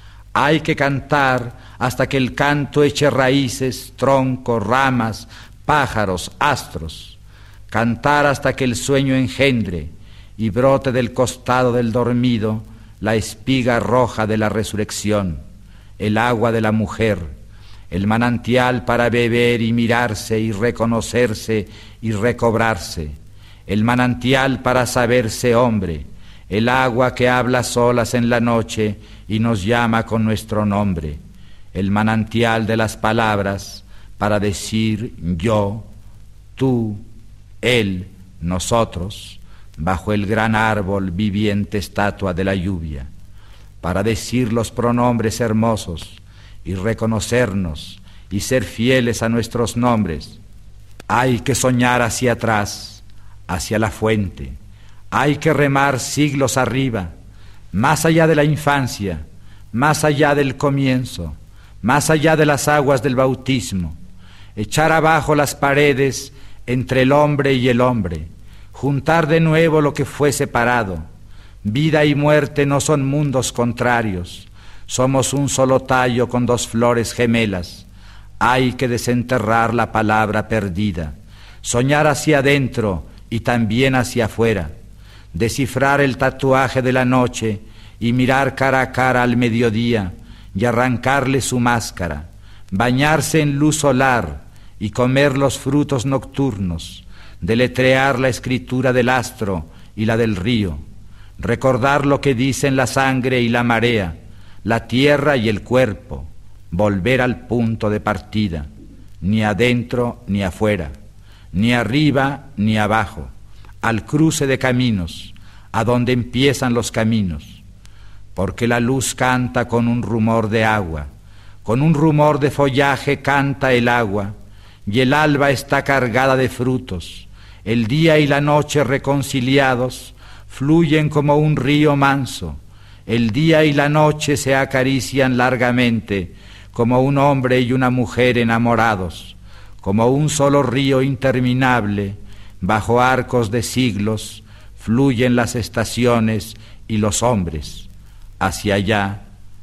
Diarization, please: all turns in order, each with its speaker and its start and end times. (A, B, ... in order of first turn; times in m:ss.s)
0:00.3-0:07.2 A
0:07.7-0:15.4 A
0:16.0-0:17.3 A
0:17.9-0:31.2 A
0:31.7-0:35.9 A
0:36.6-0:37.0 A
0:37.6-0:43.1 A
0:43.8-0:50.4 A
0:51.1-0:54.6 A
0:55.1-0:57.1 A
0:57.7-1:04.0 A
1:04.5-1:11.0 A
1:11.6-1:17.9 A
1:18.4-1:24.7 A
1:25.3-1:40.8 A
1:41.4-1:48.7 A
1:49.2-1:50.9 A
1:51.5-1:57.6 A
1:58.4-2:01.1 A
2:01.6-2:27.9 A
2:28.4-2:29.2 A